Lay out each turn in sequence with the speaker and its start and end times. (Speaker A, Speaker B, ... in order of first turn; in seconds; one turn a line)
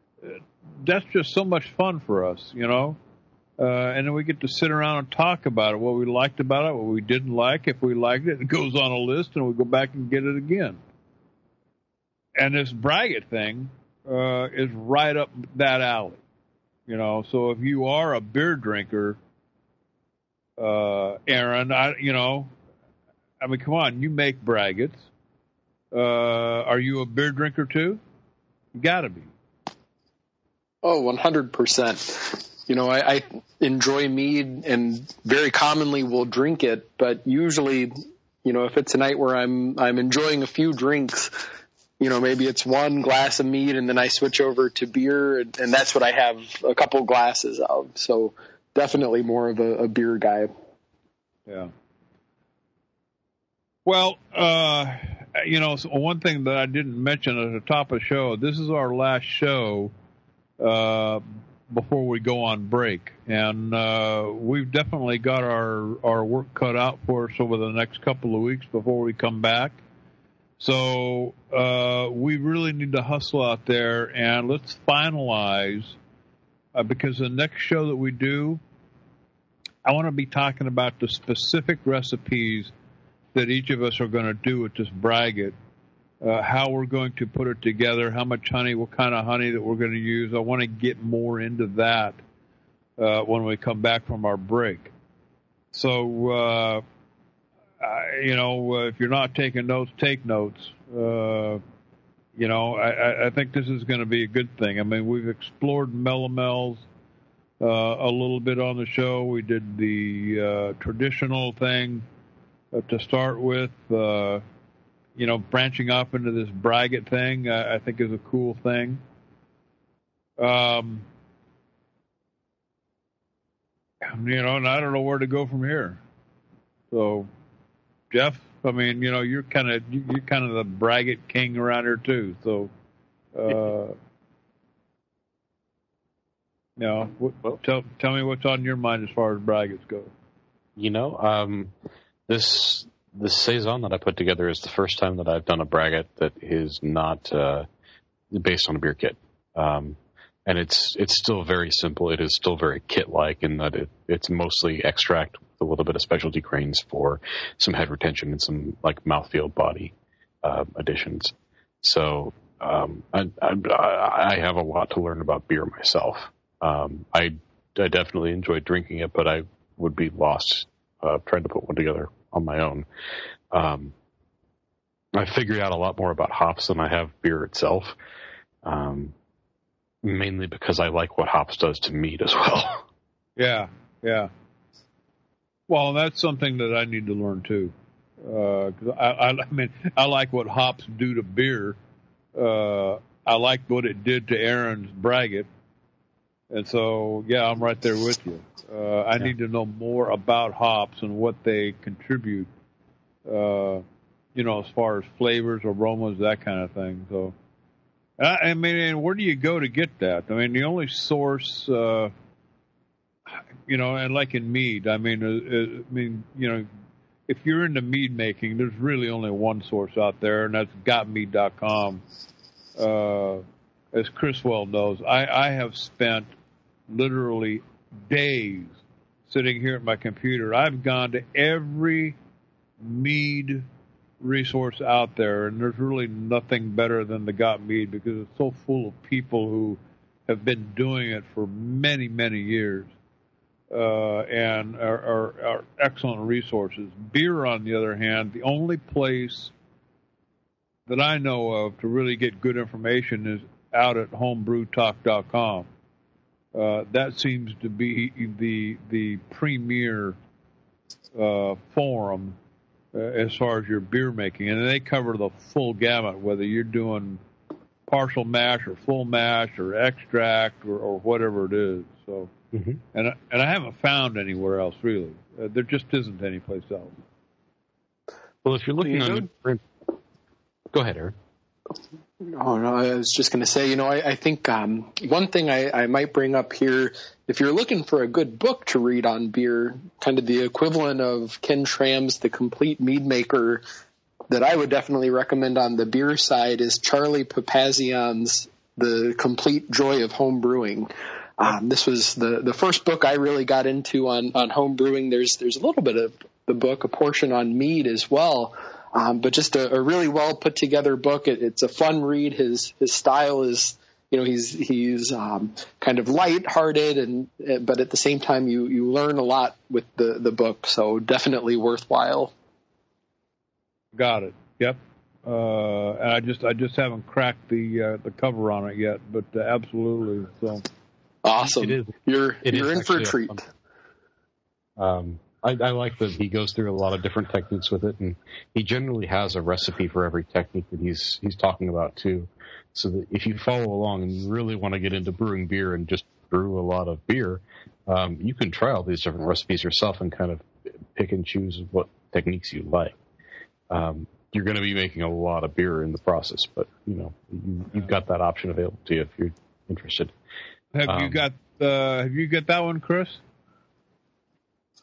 Speaker A: 0.2-3.0
Speaker A: 3.6-10.8
Speaker A: 12.4-16.2
Speaker A: 16.9-19.2
Speaker A: 20.6-22.5
Speaker A: 23.4-25.1
Speaker A: 25.9-28.0
Speaker A: 28.7-29.3
Speaker B: 30.8-41.5
Speaker B: 42.0-50.5
Speaker A: 53.9-59.9
Speaker A: 60.6-69.8
Speaker A: 70.6-76.0
Speaker A: 76.7-78.6
Speaker A: 79.8-82.7
Speaker A: 83.3-85.5
Speaker A: 86.2-92.2
Speaker A: 93.0-94.9
Speaker A: 95.7-96.8
Speaker A: 97.8-101.6
Speaker A: 102.3-106.8
Speaker A: 107.6-112.0
Speaker A: 112.7-114.4
Speaker A: 115.2-119.0
Speaker A: 120.4-121.0
Speaker A: 124.0-126.0
Speaker A: 126.9-127.3
Speaker A: 128.1-132.7
Speaker A: 133.3-133.9
Speaker A: 136.8-140.1
Speaker C: 140.8-141.7
Speaker C: 142.3-147.7
Speaker C: 148.3-172.8
Speaker C: 173.5-173.9
Speaker C: 175.1-177.9
Speaker C: 178.6-179.1
Speaker C: 180.0-182.8
Speaker A: 183.4-184.3
Speaker A: 185.7-191.8
Speaker A: 192.3-195.5
Speaker A: 196.5-202.5
Speaker A: 203.2-203.8
Speaker A: 204.3-207.3
Speaker A: 208.2-212.1
Speaker A: 213.3-216.7
Speaker A: 217.3-222.0
Speaker A: 222.8-226.3
Speaker A: 226.9-232.2
Speaker A: 232.8-233.7
Speaker A: 234.2-242.9
Speaker A: 243.7-249.5
Speaker A: 250.9-255.7
Speaker A: 256.5-260.2
Speaker A: 261.1-262.4
Speaker A: 262.9-267.2
Speaker A: 267.9-272.3
Speaker C: 272.5-272.8
Speaker A: 272.9-276.9
Speaker C: 278.4-279.6
Speaker C: 280.7-281.1
Speaker B: 282.2-293.6
Speaker B: 294.3-322.3
Speaker A: 323.9-330.6
Speaker B: 331.2-333.4
Speaker C: 331.4-331.9
Speaker C: 332.4-333.4
Speaker C: 334.8-352.9
Speaker C: 353.7-360.1
Speaker A: 360.7-363.2
Speaker C: 360.9-361.2